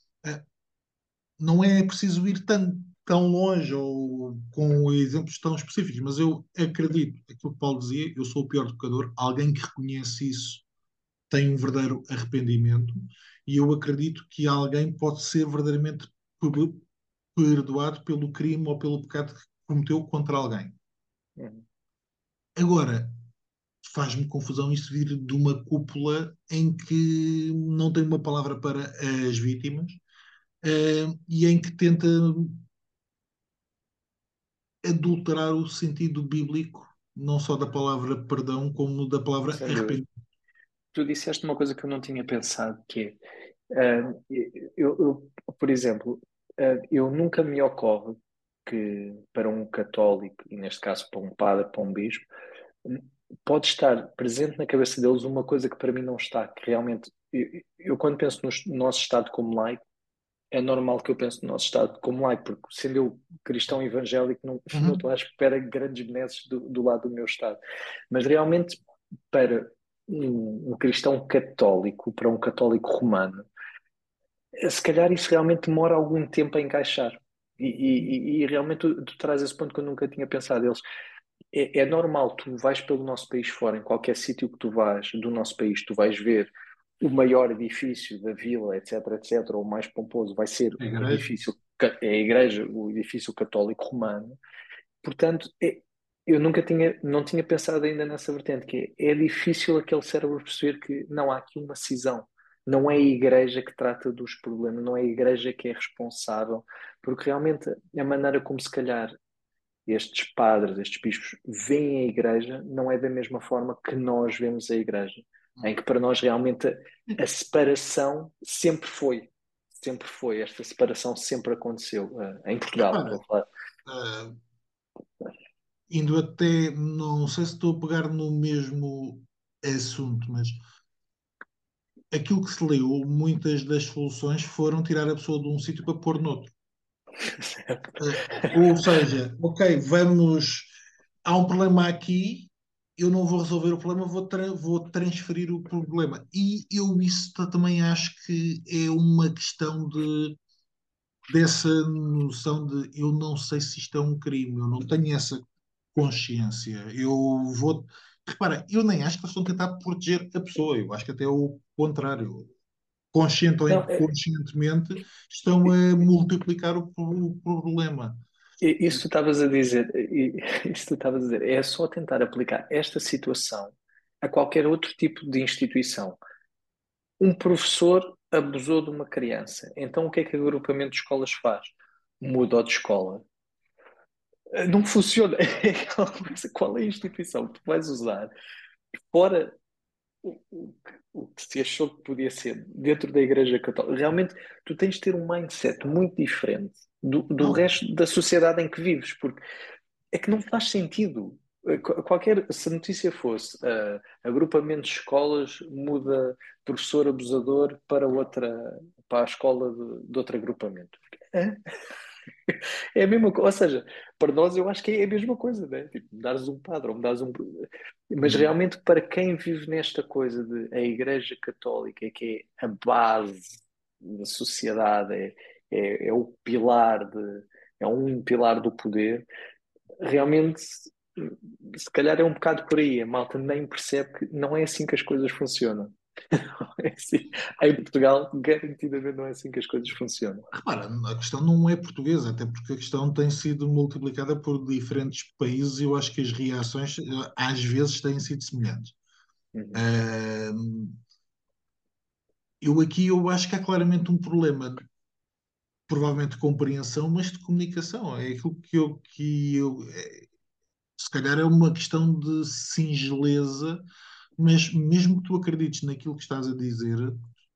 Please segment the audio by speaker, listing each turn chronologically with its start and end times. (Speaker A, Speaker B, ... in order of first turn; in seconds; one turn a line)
Speaker A: 1.4-10.6
Speaker A: 11.3-16.8
Speaker A: 17.3-20.8
Speaker B: 21.4-21.6
Speaker A: 22.6-23.2
Speaker A: 23.8-30.0
Speaker A: 30.6-32.6
Speaker A: 34.8-40.1
Speaker B: 39.5-40.0
Speaker B: 40.9-43.2
Speaker B: 43.7-52.2
Speaker B: 52.9-59.8
Speaker B: 60.5-67.6
Speaker A: 64.7-65.0
Speaker B: 68.1-68.8
Speaker B: 69.3-73.4
Speaker B: 74.5-80.8
Speaker B: 81.5-94.4
Speaker A: 90.8-91.3
Speaker B: 95.0-109.2
Speaker B: 109.9-123.5
Speaker A: 122.8-123.2
Speaker A: 123.8-124.4
Speaker A: 125.9-130.6
Speaker A: 132.1-136.5
Speaker B: 137.2-138.6
Speaker A: 138.0-150.4
Speaker A: 151.3-155.4
Speaker A: 155.9-162.5
Speaker A: 163.1-168.2
Speaker B: 163.7-164.0
Speaker B: 168.6-176.2
Speaker B: 177.2-183.2
Speaker B: 184.5-188.3
Speaker B: 189.1-189.6
Speaker B: 190.2-199.4
Speaker B: 200.1-211.6
Speaker B: 212.5-229.2
Speaker A: 218.2-218.5
Speaker B: 230.0-240.5
Speaker A: 240.5-248.9
Speaker B: 249.5-249.8
Speaker A: 249.7-251.0
Speaker A: 252.6-254.8
Speaker A: 255.9-260.3
Speaker A: 261.0-263.8
Speaker A: 264.4-267.2